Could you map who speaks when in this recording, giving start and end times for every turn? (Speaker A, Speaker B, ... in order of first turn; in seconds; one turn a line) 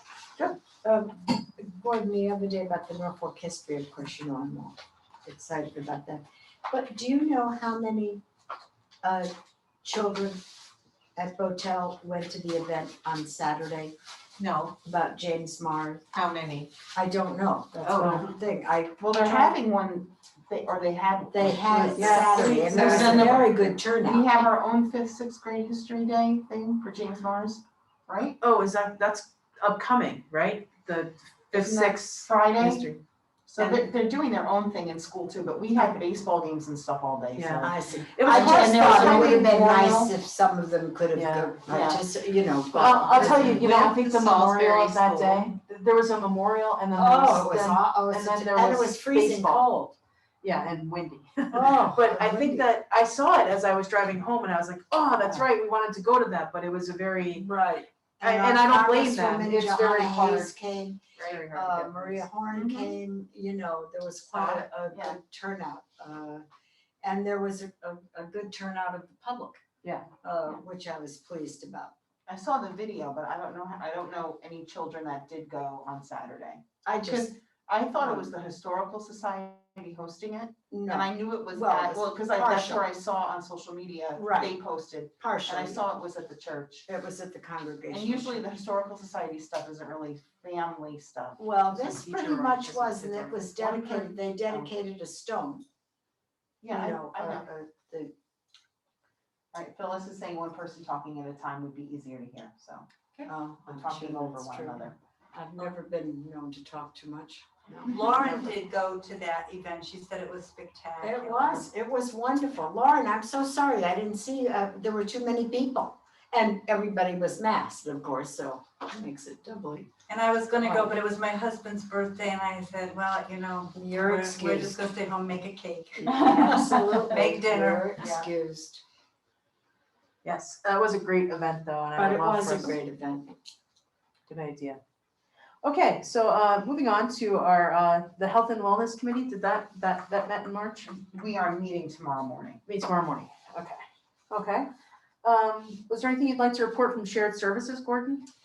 Speaker A: 0.8-8.2
Speaker A: 9.0-9.3
Speaker A: 9.8-10.5
Speaker A: 11.2-13.9
Speaker B: 14.4-14.7
Speaker A: 14.8-16.0
Speaker B: 16.1-16.7
Speaker A: 16.9-19.6
Speaker B: 17.8-18.3
Speaker C: 19.0-28.4
Speaker A: 21.3-24.3
Speaker D: 21.9-23.0
Speaker D: 28.4-33.0
Speaker C: 31.5-32.9
Speaker C: 33.5-37.7
Speaker D: 33.6-33.8
Speaker D: 37.4-39.5
Speaker A: 37.6-43.7
Speaker C: 38.2-40.1
Speaker D: 41.1-41.6
Speaker C: 41.7-42.0
Speaker D: 42.7-49.7
Speaker C: 43.2-44.0
Speaker B: 43.6-45.5
Speaker A: 47.0-50.0
Speaker D: 50.4-57.5
Speaker A: 51.5-52.7
Speaker C: 55.2-55.5
Speaker A: 57.3-66.5
Speaker D: 58.2-60.5
Speaker D: 61.2-62.2
Speaker C: 62.5-63.0
Speaker C: 64.3-65.2
Speaker A: 67.0-69.6
Speaker A: 70.2-71.9
Speaker C: 72.3-86.9
Speaker A: 76.8-77.3
Speaker A: 78.0-78.3
Speaker A: 80.7-82.8
Speaker A: 84.2-84.6
Speaker A: 85.2-85.8
Speaker A: 86.9-88.5
Speaker C: 87.9-91.4
Speaker A: 91.4-95.6
Speaker D: 91.7-93.5
Speaker C: 93.5-94.7
Speaker C: 96.6-97.5
Speaker A: 96.7-98.1
Speaker C: 99.5-105.0
Speaker A: 103.3-108.5
Speaker E: 107.9-111.7
Speaker A: 111.0-119.9
Speaker E: 120.1-128.3
Speaker A: 120.6-121.0
Speaker A: 123.8-124.8
Speaker A: 126.0-128.8
Speaker D: 130.2-132.8
Speaker A: 132.0-133.3
Speaker D: 134.3-134.8
Speaker D: 135.6-140.9
Speaker C: 140.9-142.6
Speaker D: 142.7-143.8
Speaker D: 144.3-144.7
Speaker D: 145.2-148.3